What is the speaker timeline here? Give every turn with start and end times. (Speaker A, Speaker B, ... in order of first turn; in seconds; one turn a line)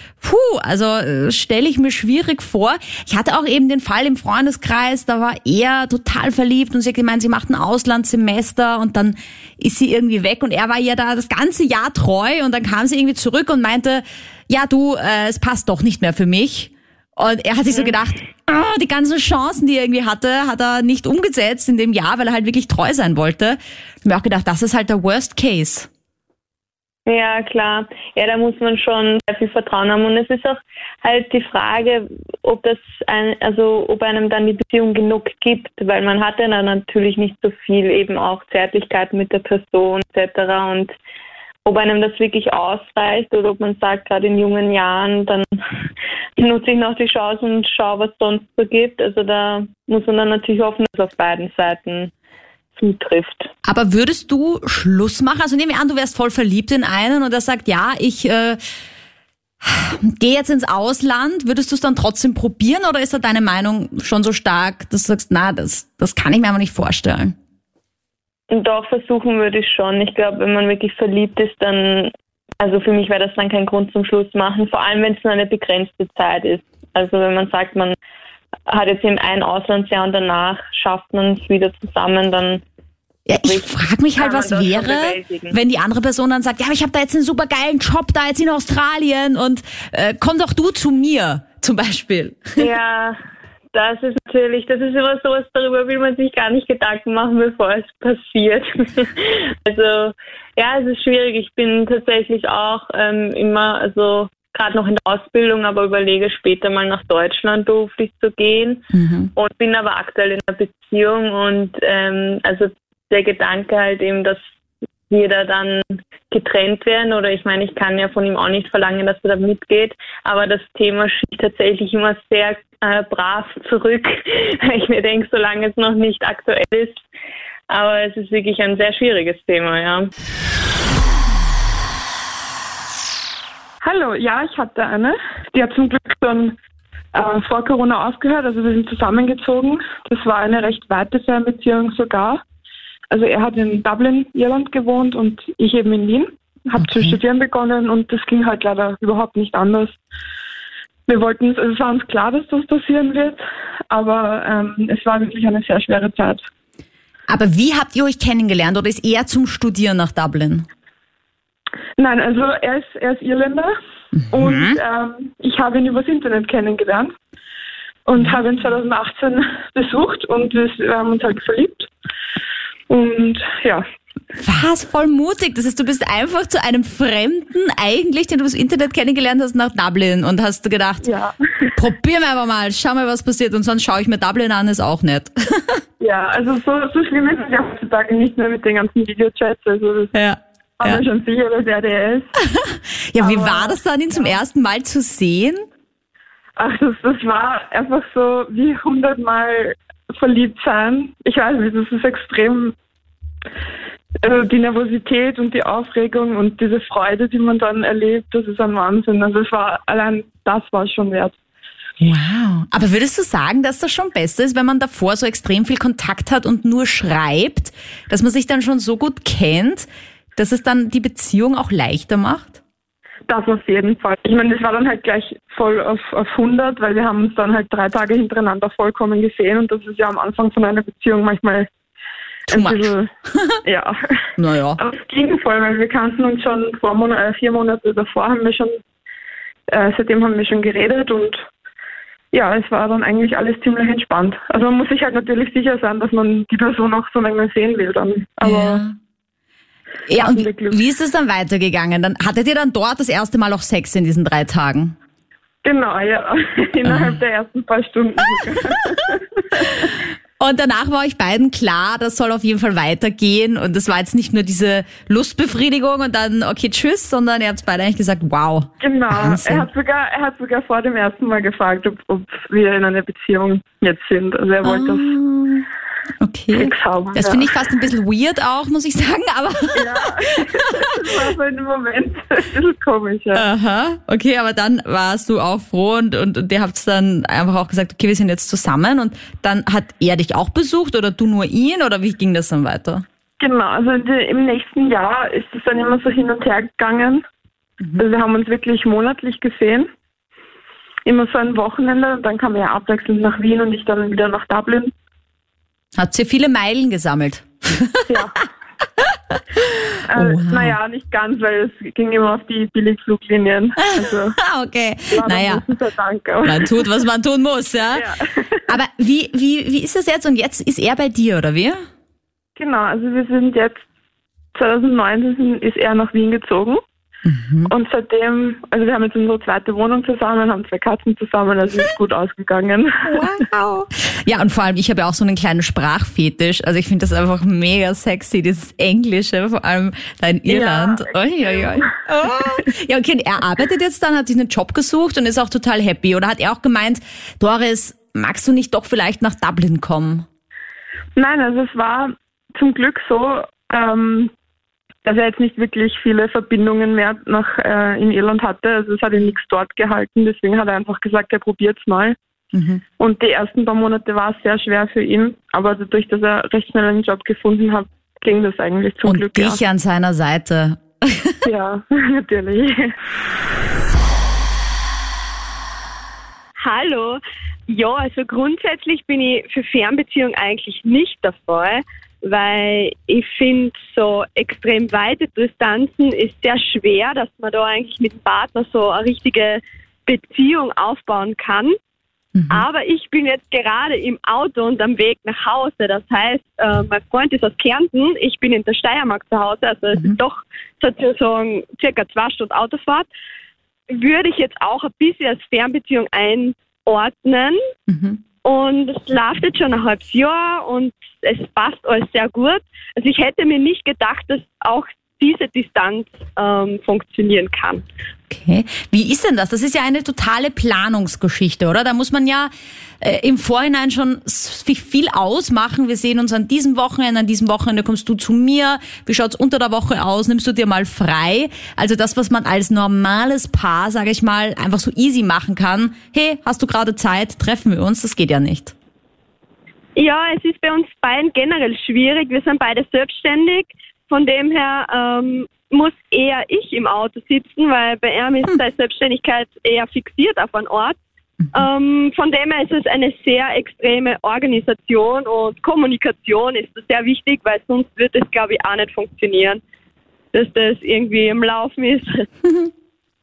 Speaker A: 0.2-25.9
Speaker B: 27.1-40.9
Speaker B: 41.6-45.6
Speaker B: 46.4-52.1
Speaker B: 52.8-53.5
Speaker A: 53.6-58.6
Speaker A: 59.6-67.3
Speaker B: 68.5-78.0
Speaker B: 78.7-82.6
Speaker A: 83.3-92.6
Speaker B: 83.4-85.5
Speaker B: 92.6-93.2
Speaker B: 93.7-114.4
Speaker A: 108.9-109.3
Speaker B: 115.1-127.0
Speaker B: 127.7-130.1
Speaker C: 133.8-136.6
Speaker C: 137.1-142.4
Speaker C: 143.1-150.0
Speaker A: 146.8-147.2
Speaker C: 151.1-156.5
Speaker A: 157.3-160.7
Speaker C: 162.0-163.7
Speaker A: 164.2-164.8
Speaker C: 164.3-167.1
Speaker C: 168.1-171.9
Speaker C: 172.9-173.8
Speaker A: 174.3-181.0
Speaker C: 181.0-181.7
Speaker A: 181.7-185.8
Speaker C: 186.0-190.1
Speaker A: 190.1-191.0
Speaker C: 190.8-192.3
Speaker A: 192.5-195.7
Speaker C: 193.2-194.3
Speaker C: 196.6-202.7
Speaker C: 204.2-211.4
Speaker A: 212.0-222.6
Speaker C: 223.3-231.7
Speaker C: 232.5-233.1
Speaker A: 232.5-233.5
Speaker C: 233.6-233.9
Speaker A: 234.4-234.8
Speaker C: 234.8-238.7
Speaker C: 239.7-241.5
Speaker C: 242.3-248.8
Speaker A: 248.4-248.9
Speaker A: 250.1-254.9
Speaker C: 250.1-250.8
Speaker C: 255.6-259.4
Speaker A: 256.8-257.2
Speaker A: 259.7-269.7
Speaker C: 268.8-275.2
Speaker A: 274.6-275.6
Speaker A: 276.2-280.6
Speaker C: 276.5-277.5
Speaker C: 279.7-283.4
Speaker A: 283.3-293.0
Speaker C: 293.4-297.2
Speaker C: 298.0-299.9
Speaker C: 301.1-304.9
Speaker A: 306.0-308.1
Speaker C: 308.1-308.3
Speaker C: 310.1-314.4
Speaker A: 310.1-310.8
Speaker A: 313.8-315.6
Speaker C: 315.1-316.8
Speaker A: 316.4-318.0
Speaker C: 317.9-318.6
Speaker A: 318.7-321.8
Speaker C: 322.6-323.9
Speaker C: 324.5-326.8
Speaker A: 327.2-327.7
Speaker C: 327.6-333.2
Speaker A: 333.1-350.2
Speaker C: 340.5-341.9
Speaker C: 351.1-354.3
Speaker C: 355.0-362.2
Speaker A: 362.5-362.8
Speaker C: 363.0-369.6
Speaker A: 369.0-371.4
Speaker C: 371.4-372.9
Speaker D: 376.6-391.7
Speaker A: 392.3-392.6
Speaker D: 392.5-403.1
Speaker D: 403.9-407.6
Speaker A: 407.9-408.2
Speaker D: 408.4-417.8
Speaker A: 418.3-438.7
Speaker D: 439.9-451.0
Speaker D: 451.5-459.6
Speaker D: 460.3-462.3
Speaker A: 462.4-462.7